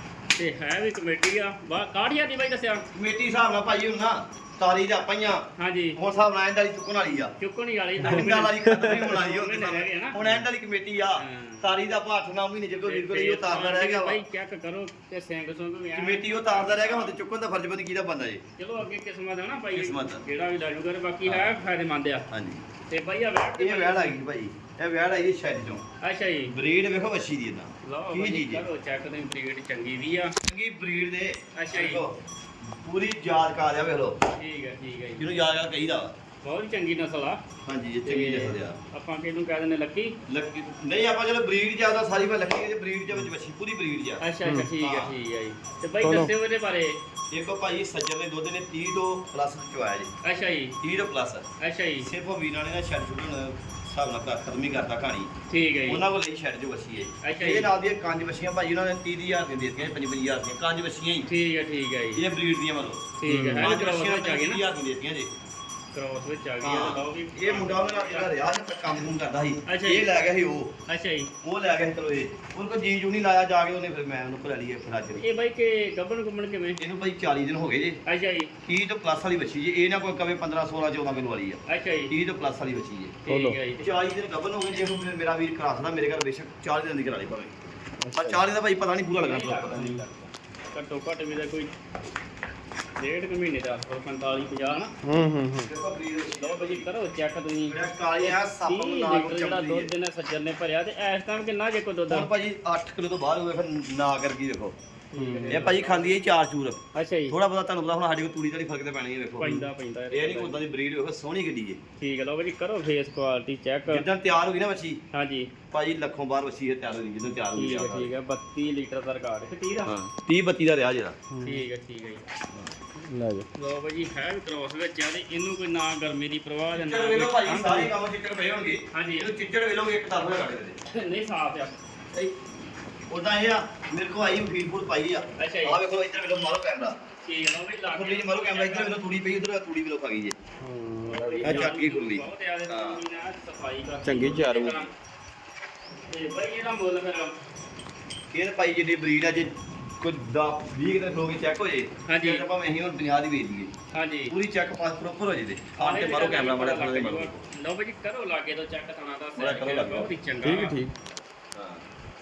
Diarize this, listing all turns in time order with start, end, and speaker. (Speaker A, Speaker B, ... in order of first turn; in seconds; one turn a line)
Speaker A: 0.3-2.9
Speaker B: 2.9-7.3
Speaker A: 5.6-6.0
Speaker A: 7.4-10.4
Speaker B: 8.0-14.2
Speaker C: 8.7-9.1
Speaker A: 11.2-11.7
Speaker A: 12.8-17.2
Speaker B: 15.9-18.4
Speaker A: 18.6-22.2
Speaker B: 19.7-20.2
Speaker B: 21.2-21.6
Speaker B: 22.3-22.6
Speaker A: 22.9-24.2
Speaker B: 23.6-25.8
Speaker A: 26.0-26.5
Speaker B: 26.5-28.6
Speaker A: 27.8-30.3
Speaker B: 30.5-34.2
Speaker A: 31.5-32.0
Speaker A: 34.3-35.2
Speaker B: 35.2-36.1
Speaker A: 36.4-37.4
Speaker B: 37.6-38.8
Speaker A: 38.0-40.2
Speaker B: 40.3-44.2
Speaker A: 44.2-47.0
Speaker C: 44.4-44.7
Speaker B: 44.8-45.1
Speaker C: 46.0-46.3
Speaker B: 47.3-50.1
Speaker A: 50.2-50.8
Speaker B: 50.8-51.5
Speaker A: 51.6-52.1
Speaker B: 52.0-55.3
Speaker A: 55.5-56.0
Speaker B: 55.9-61.3
Speaker A: 57.2-57.7
Speaker A: 61.3-62.2
Speaker B: 62.1-65.3
Speaker A: 63.2-64.6
Speaker C: 63.3-63.7
Speaker A: 65.9-68.4
Speaker B: 66.6-70.7
Speaker A: 69.7-70.1
Speaker A: 70.9-71.3
Speaker B: 71.4-75.2
Speaker A: 75.2-76.8
Speaker B: 76.8-78.0
Speaker A: 78.0-78.5
Speaker B: 78.6-83.2
Speaker A: 81.7-82.1
Speaker A: 83.2-83.8
Speaker C: 83.3-83.6
Speaker B: 83.8-90.0
Speaker C: 88.0-88.4
Speaker A: 89.2-91.7
Speaker A: 93.0-94.9
Speaker C: 95.0-95.7
Speaker B: 95.5-96.9
Speaker A: 96.4-102.3
Speaker B: 97.7-99.9
Speaker B: 102.1-104.7
Speaker A: 105.1-106.2
Speaker C: 105.2-105.6
Speaker B: 105.5-111.8
Speaker A: 106.9-107.4
Speaker A: 109.4-110.6
Speaker A: 112.0-114.1
Speaker B: 113.9-115.0
Speaker A: 115.1-115.5
Speaker B: 115.7-118.1
Speaker A: 117.5-119.9
Speaker B: 119.8-121.2
Speaker C: 121.3-121.6
Speaker A: 121.4-122.2
Speaker C: 123.0-123.5
Speaker A: 123.5-127.9
Speaker B: 126.7-130.8
Speaker A: 128.9-129.3
Speaker A: 130.9-131.8
Speaker B: 133.1-137.0
Speaker A: 135.4-135.8
Speaker A: 137.2-139.0
Speaker B: 137.9-140.3
Speaker C: 140.6-141.7
Speaker A: 141.1-144.9
Speaker B: 141.4-143.0
Speaker C: 144.0-144.8
Speaker A: 146.1-147.3
Speaker B: 148.3-153.7
Speaker A: 152.1-152.5
Speaker A: 153.9-154.3
Speaker B: 154.3-157.5
Speaker A: 155.8-160.8
Speaker B: 159.4-160.1
Speaker C: 160.4-160.9
Speaker B: 161.5-161.8